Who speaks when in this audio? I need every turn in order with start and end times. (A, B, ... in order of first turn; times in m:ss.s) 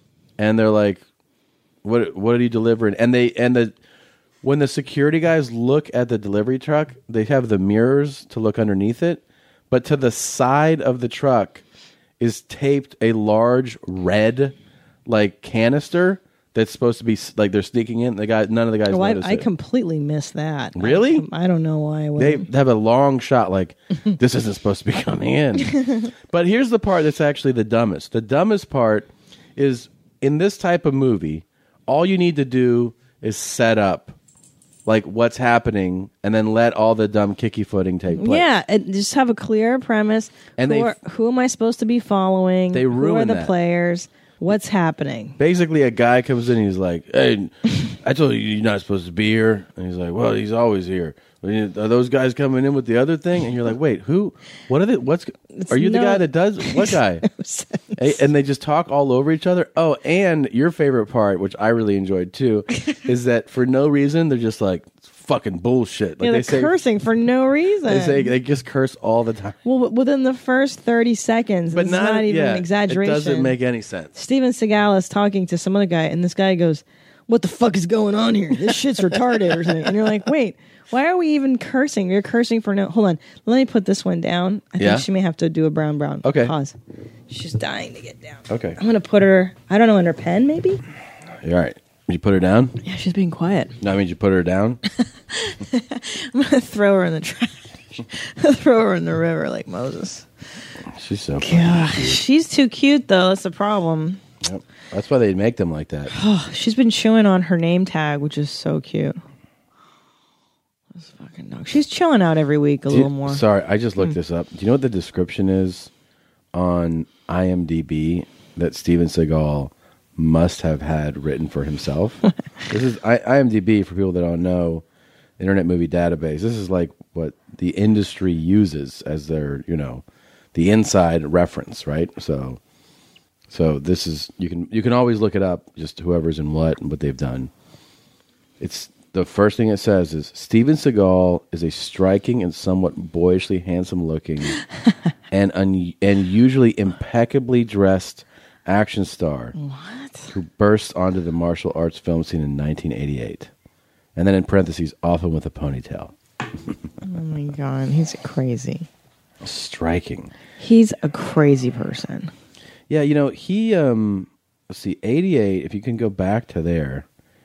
0:00.4-0:01.0 A
0:01.8-0:03.8 A
0:04.4-0:11.6 A
0:12.2-0:14.6 A
0:15.1-0:19.5 A
0:18.9-0:22.5 B
0:20.8-0:21.2 A
0:22.2-0:25.7 A
0:25.7-0:26.1 B
0:26.3-0:34.2 A
0:34.9-0:38.5 A
0:38.1-0:45.4 B
0:40.6-0:41.0 A
0:42.7-0:43.5 A
0:45.4-0:57.2 A
0:55.6-0:58.2 B
0:58.0-1:06.7 A
1:06.2-1:08.3 B
1:07.9-1:09.6 A
1:09.6-1:13.6 B
1:11.7-1:14.2 A
1:14.2-1:26.8 B
1:24.8-1:25.1 A
1:26.2-1:26.5 A
1:27.3-1:30.8 B
1:28.5-1:28.8 A
1:31.4-1:32.8 A
1:32.8-1:33.8 B
1:33.8-1:34.8 A
1:35.3-1:40.3 B
1:40.9-1:42.2 A
1:41.4-1:44.2 B
1:44.4-1:46.1 A
1:46.1-1:49.2 B
1:51.0-1:53.4 B
1:52.9-1:55.9 A
1:56.5-2:04.8 A
2:05.4-2:12.6 A
2:13.5-2:17.5 A
2:18.6-2:24.6 A
2:25.3-2:29.6 A
2:29.6-2:30.3 B
2:30.3-2:33.5 A
2:34.2-2:36.1 A
2:37.0-2:38.9 B
2:39.4-2:40.3 A
2:40.6-2:42.3 B
2:42.9-2:47.1 A